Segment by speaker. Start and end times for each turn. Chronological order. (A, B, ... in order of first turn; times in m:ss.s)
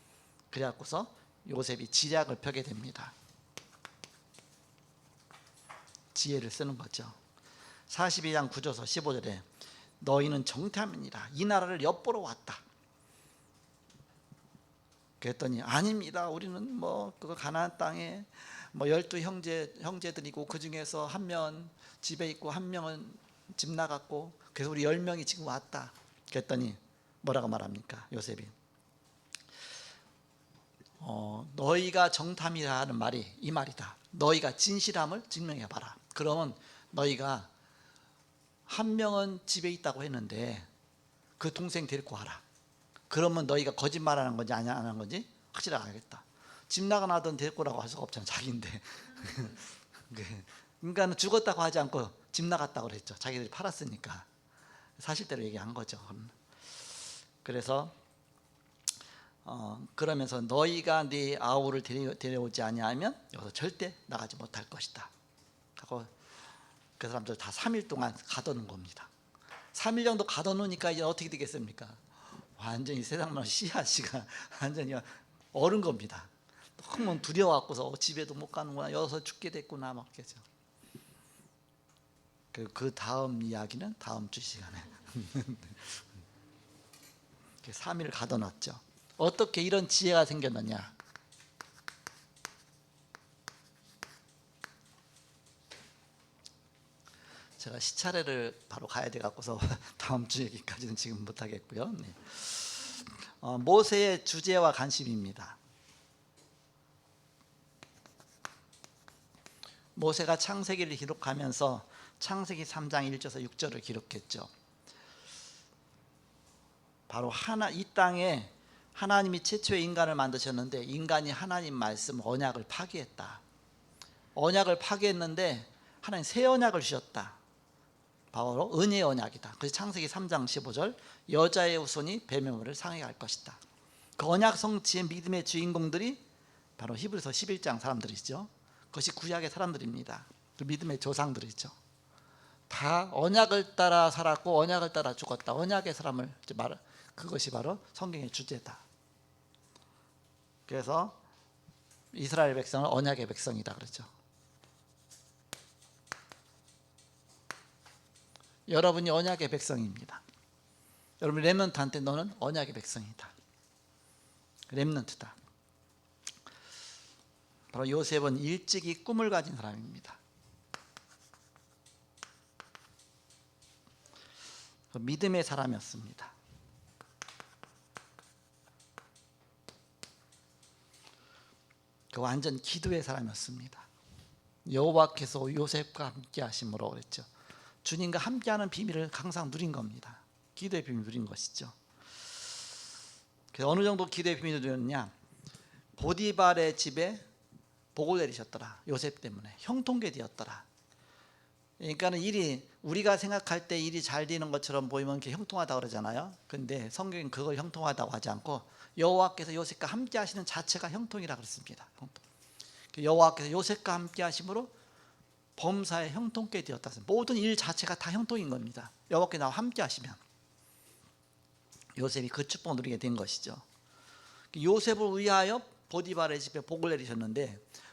0:00.5-0:03.1 A
0:06.1-0:07.2 A
0:07.9-0:09.4 A
0:10.0-0:12.6 A
0:15.2-0:28.5 A
0:31.0-0:37.5 A
0:38.7-0:40.7 A
0:41.4-0:42.4 A
0:43.1-0:54.2 A
0:55.0-0:56.3 A
0:57.4-0:57.9 A
0:59.4-1:05.1 A
1:05.8-1:06.1 A
1:07.0-1:09.1 A
1:09.7-1:12.0 A
1:12.6-1:20.4 A
1:22.5-1:26.0 A
1:27.6-1:30.9 A
1:37.6-1:45.6 A
1:50.0-1:54.5 A
1:57.1-2:03.4 A
2:04.3-2:07.4 A
2:08.3-2:13.6 A
2:14.2-2:16.2 A
2:16.8-2:21.7 A
2:22.7-2:28.8 A
2:30.7-2:31.2 A
2:32.1-2:34.1 A
2:38.7-2:40.2 A
2:41.2-2:43.3 A
2:44.7-2:45.4 A
2:47.7-2:50.2 A
2:54.9-2:56.3 A
3:02.1-3:03.8 A
3:04.6-3:07.3 A
3:07.8-3:11.7 A
3:13.5-3:15.1 A
3:16.0-3:17.2 A
3:17.9-3:20.6 A
3:21.8-3:32.2 A
3:32.9-3:34.7 A
3:35.6-3:40.2 A
3:42.0-3:43.6 A
3:44.5-3:47.6 A